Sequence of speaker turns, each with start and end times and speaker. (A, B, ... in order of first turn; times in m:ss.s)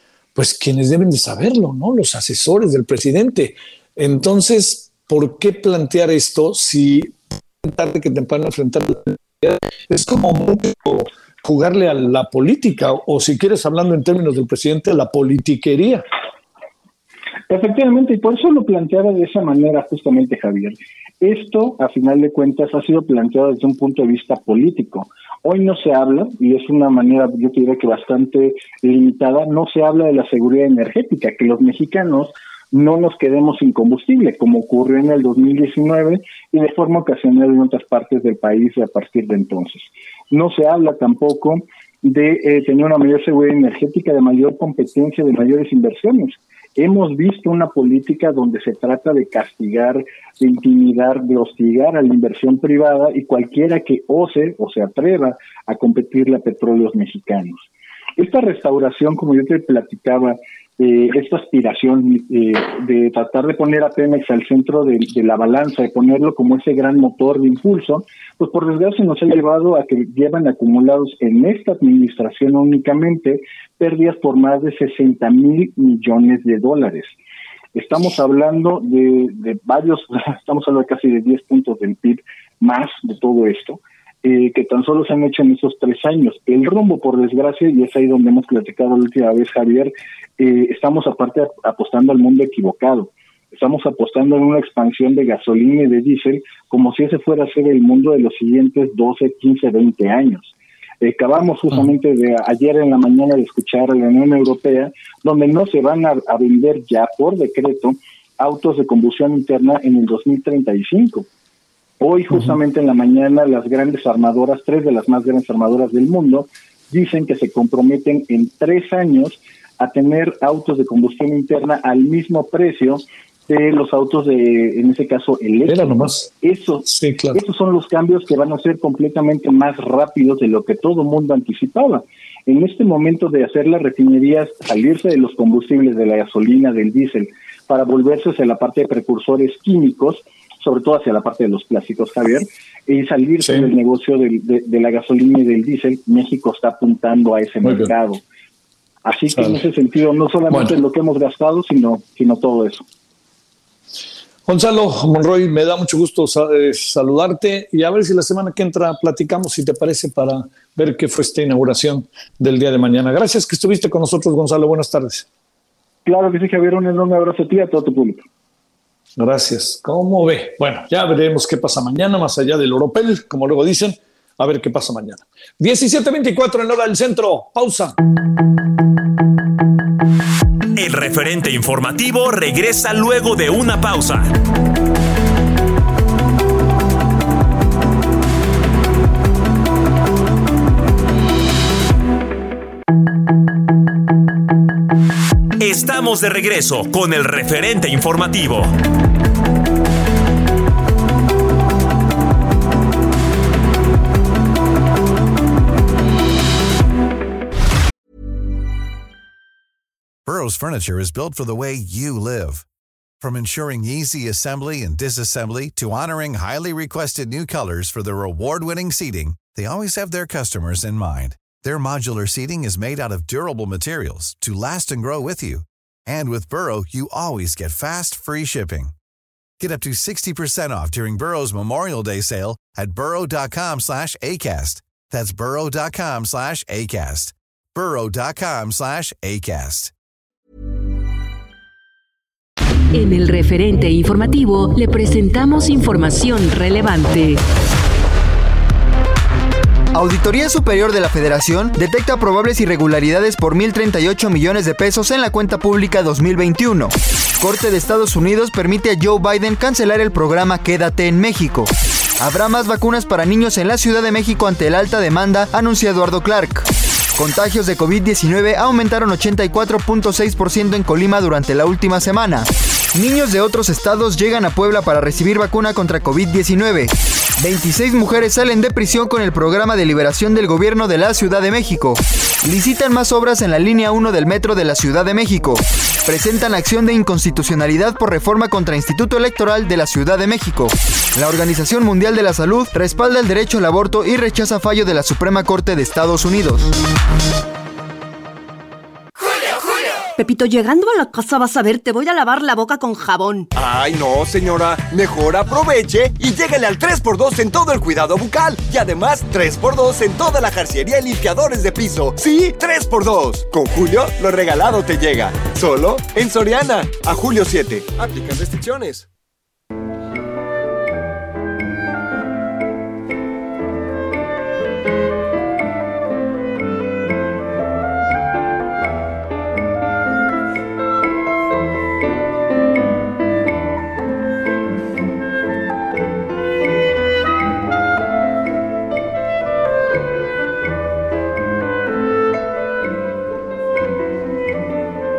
0:00.3-0:16.0 A
0:17.5-1:17.1 B
1:17.7-1:51.3 B
1:52.0-2:28.2 B
2:05.6-2:06.3 A
2:06.9-2:07.4 A
2:27.6-2:27.9 A
2:29.0-2:32.8 B
2:29.3-2:29.6 A
2:34.5-2:45.3 A
2:46.0-2:48.2 B
2:49.2-2:58.0 A
3:00.8-3:04.4 C
3:15.6-3:18.7 C
3:30.2-3:32.6 D
3:33.2-3:48.9 D
3:49.6-3:59.9 D
4:02.9-4:07.4 E
4:09.9-4:26.6 F
4:27.2-4:56.7 F
5:00.2-5:03.5 G
5:03.5-5:19.1 H